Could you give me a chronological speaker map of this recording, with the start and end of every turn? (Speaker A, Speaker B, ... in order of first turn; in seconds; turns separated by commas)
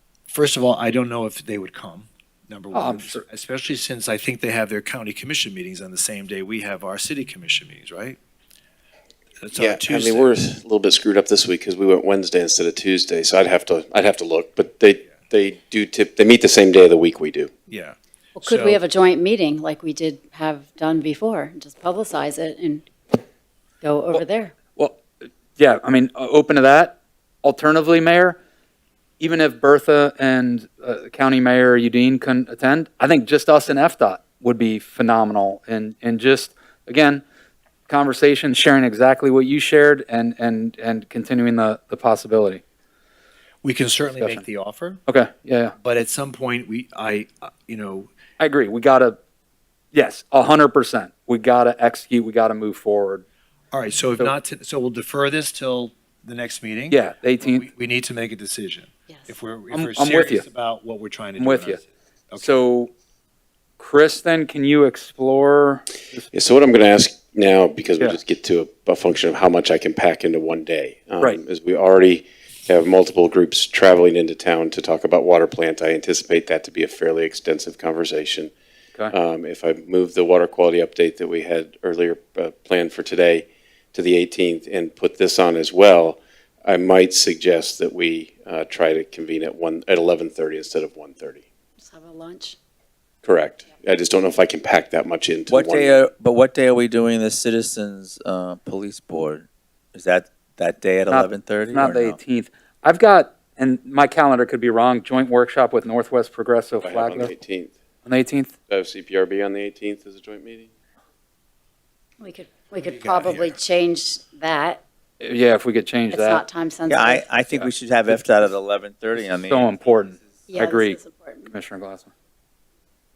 Speaker A: 0.3-8.2, Speaker B: 2.7-3.2, Speaker A: 9.4-10.3, Speaker C: 9.5-17.5, Speaker A: 17.7-18.8, Speaker D: 18.4-22.9, Speaker D: 23.8-24.5, Speaker B: 25.6-28.4, Speaker B: 29.2-37.2, Speaker B: 37.9-42.6, Speaker A: 43.6-45.0, Speaker B: 44.2-44.5, Speaker B: 45.1-45.7, Speaker A: 45.8-48.1, Speaker B: 48.4-49.2, Speaker B: 49.9-53.2, Speaker A: 53.7-62.6, Speaker B: 56.9-57.7, Speaker B: 59.7-60.5, Speaker B: 61.4-61.8, Speaker B: 62.4-62.9, Speaker B: 63.8-66.3, Speaker C: 66.3-78.5, Speaker C: 79.1-91.4, Speaker D: 91.8-92.6, Speaker C: 93.2-96.1, Speaker E: 95.5-102.2, Speaker B: 101.1-107.3, Speaker C: 106.8-107.8, Speaker B: 108.0-108.5, Speaker C: 108.7-110.7, Speaker D: 112.2-114.8, Speaker A: 112.8-113.6, Speaker B: 115.2-116.4, Speaker D: 116.1-117.4, Speaker E: 116.9-119.7, Speaker B: 117.5-118.2, Speaker B: 119.2-121.0, Speaker D: 120.5-121.5, Speaker B: 121.5-122.1